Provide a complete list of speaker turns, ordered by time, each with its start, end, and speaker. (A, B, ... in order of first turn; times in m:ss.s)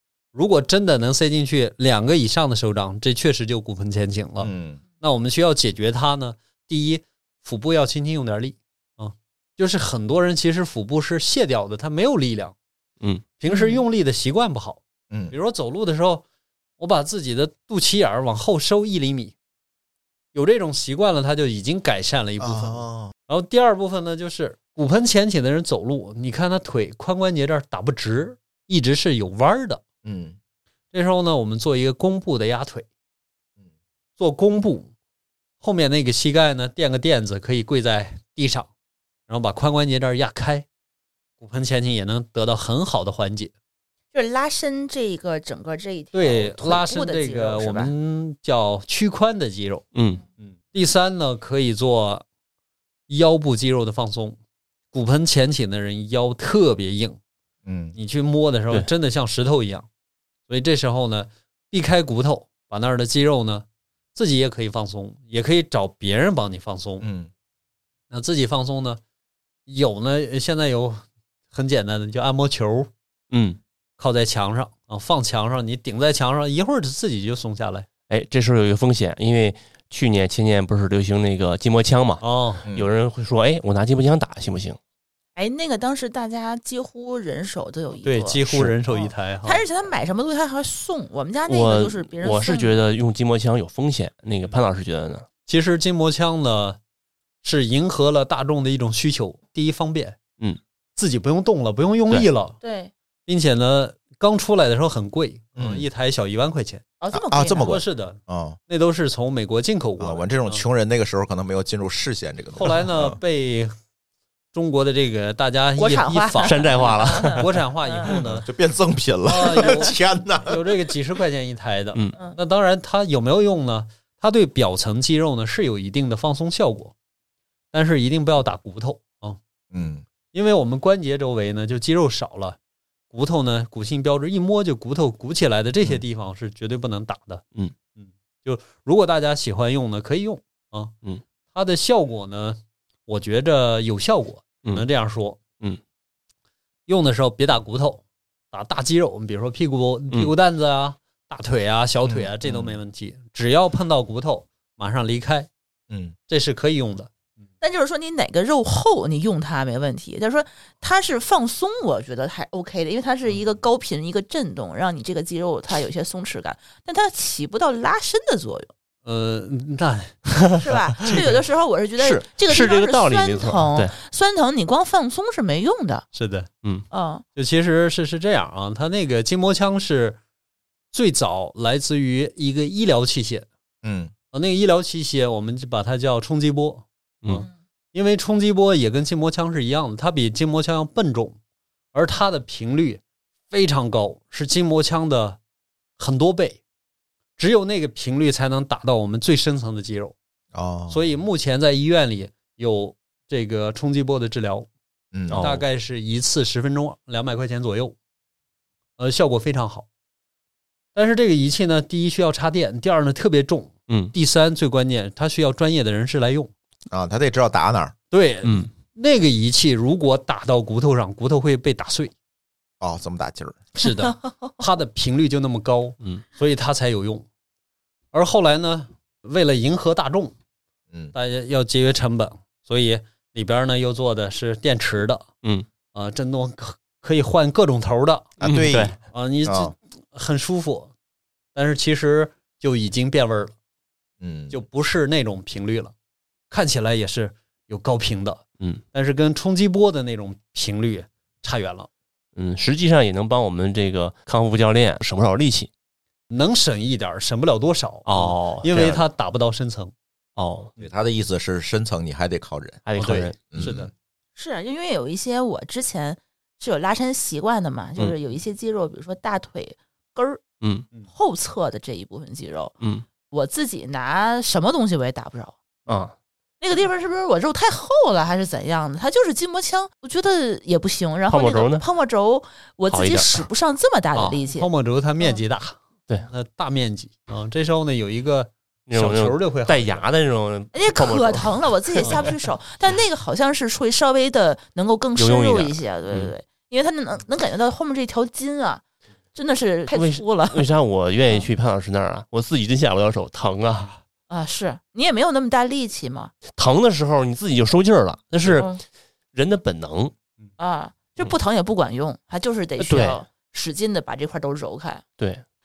0:00.3-0:12.5 A
0:04.4-0:04.8 B
0:13.4-0:16.2 A
0:13.5-0:13.8 C
0:16.8-0:19.3 A
0:20.3-0:29.8 A
0:22.4-0:23.1 B
0:30.0-0:30.4 B
0:30.9-0:32.9 A
0:34.2-0:34.9 A
0:35.6-0:38.7 A
0:39.3-0:40.6 A
0:41.4-0:43.5 A
0:44.1-0:47.9 C
0:46.1-0:49.8 A
0:49.9-0:50.2 D
0:50.4-0:52.2 A
0:53.1-0:54.4 A
0:54.9-0:57.2 A
0:57.6-0:57.9 B
0:58.0-0:59.9 A
1:00.5-1:07.0 A
1:07.0-1:07.3 B
1:08.1-1:09.0 A
1:09.7-1:12.9 A
1:13.3-1:13.6 D
1:14.0-1:17.9 A
1:18.1-1:24.8 D
1:22.2-1:22.6 A
1:25.4-1:28.4 C
1:28.0-1:29.6 A
1:29.4-1:32.7 C
1:31.5-1:35.3 D
1:35.4-1:36.8 A
1:37.4-1:40.2 A
1:41.0-1:42.6 A
1:42.6-1:42.9 C
1:43.3-1:46.8 A
1:45.6-1:45.9 B
1:47.0-1:47.8 C
1:47.1-1:48.6 B
1:47.6-1:50.6 A
1:50.0-1:53.2 B
1:52.5-1:53.7 A
1:54.5-1:58.5 A
1:55.8-1:58.1 C
1:56.4-1:57.5 D
1:58.2-2:00.7 B
1:59.2-2:06.9 A
2:07.7-2:09.4 A
2:09.7-2:10.0 B
2:10.3-2:12.6 A
2:13.1-2:20.9 A
2:21.5-2:25.4 A
2:26.9-2:35.5 A
2:32.0-2:32.8 B
2:35.9-2:36.1 B
2:36.3-2:37.1 A
2:37.6-2:48.7 C
2:49.0-2:50.2 A
2:50.6-2:56.0 C
2:52.0-2:53.9 D
2:56.1-2:56.5 A
2:56.9-2:57.2 C
2:57.3-3:00.2 A
3:00.9-3:03.5 A
3:03.8-3:04.1 B
3:04.3-3:11.4 A
3:11.9-3:15.4 A
3:16.0-3:16.6 A
3:17.4-3:20.1 A
3:20.5-3:21.0 B
3:20.9-3:24.7 A
3:25.1-3:25.5 B
3:25.3-3:25.6 D
3:25.3-3:27.9 A
3:29.0-3:29.9 A
3:30.9-3:36.5 A
3:36.9-3:37.9 B
3:38.1-3:42.1 A
3:38.4-3:38.7 D
3:42.8-3:43.7 B
3:43.7-3:47.3 A
3:48.1-3:50.3 A
3:51.1-3:55.3 A
3:55.9-3:58.4 A
3:58.4-3:58.9 D
3:58.4-3:59.7 B
3:59.0-4:00.9 A
4:01.5-4:03.5 A
4:04.2-4:04.6 B
4:04.5-4:05.9 A
4:06.5-4:11.9 A
4:12.4-4:15.7 D
4:16.3-4:19.9 A
4:18.0-4:19.0 D
4:20.4-4:20.7 D
4:20.8-4:22.8 B
4:22.8-4:23.8 D
4:23.0-4:23.9 A
4:23.5-4:23.8 B
4:24.4-4:30.4 C
4:30.6-4:30.8 D
4:31.1-4:32.7 C
4:33.3-4:35.6 C
4:35.9-4:36.1 D
4:36.6-4:44.7 C
4:41.3-4:41.8 D
4:42.9-4:43.4 D
4:44.1-4:45.8 A
4:46.3-4:50.0 A
4:48.9-4:52.3 D
4:50.7-4:58.8 C
4:52.0-4:52.3 A
4:55.2-4:56.3 D
4:59.3-5:00.7 C
4:59.9-5:04.0 D
5:04.3-5:06.3 C
5:06.5-5:08.7 D
5:08.5-5:08.8 C
5:09.3-5:10.1 D
5:10.6-5:15.0 C
5:12.8-5:13.2 D